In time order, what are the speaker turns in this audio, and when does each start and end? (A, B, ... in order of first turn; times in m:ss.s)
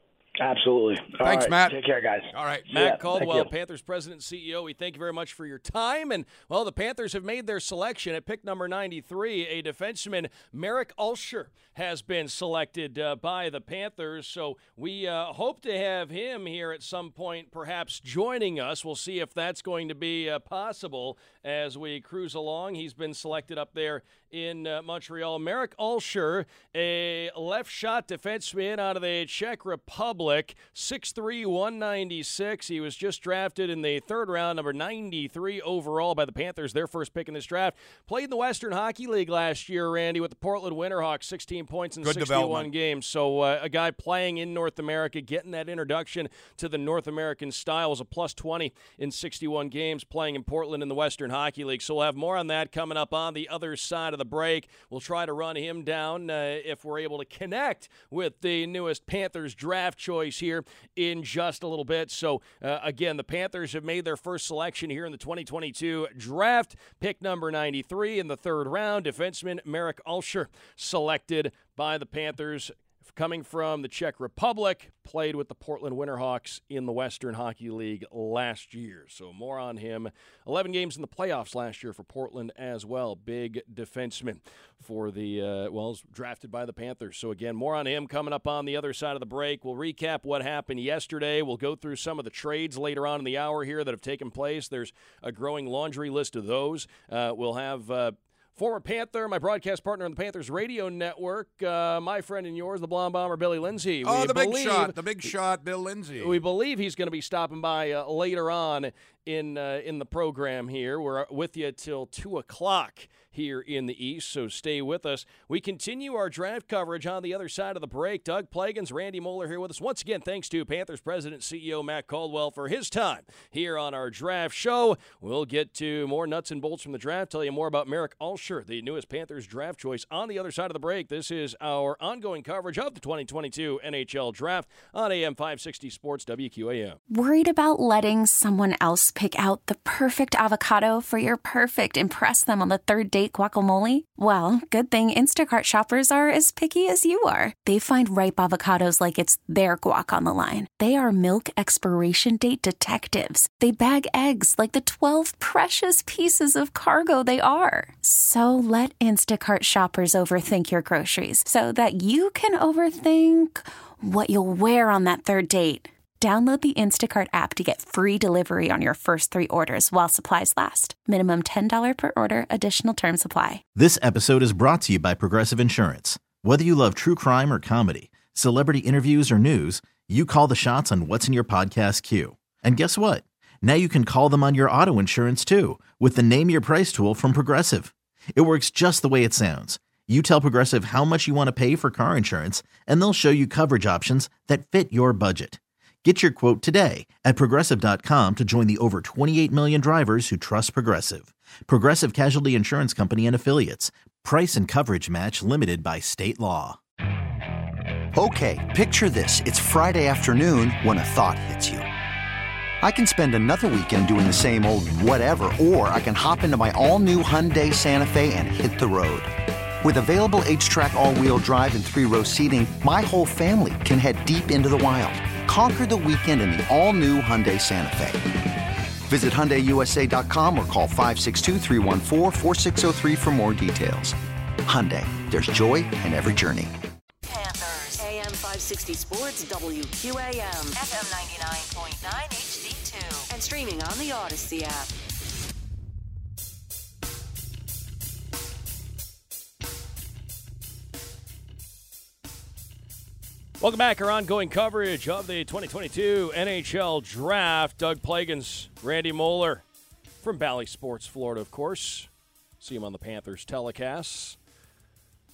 0:00.4-0:03.5 A
0:01.2-0:01.8 B
0:02.3-0:02.7 B
0:02.7-1:45.3 C
0:42.0-0:42.7 B
1:44.0-1:46.4 B
1:46.2-2:17.0 C
2:17.1-2:53.6 D
2:53.7-3:26.8 E
3:28.1-3:31.8 F
3:32.8-3:48.2 F
3:49.1-3:56.7 F
3:57.2-4:04.9 G
4:13.6-4:19.6 C
4:20.2-4:22.1 C
4:22.6-4:24.4 C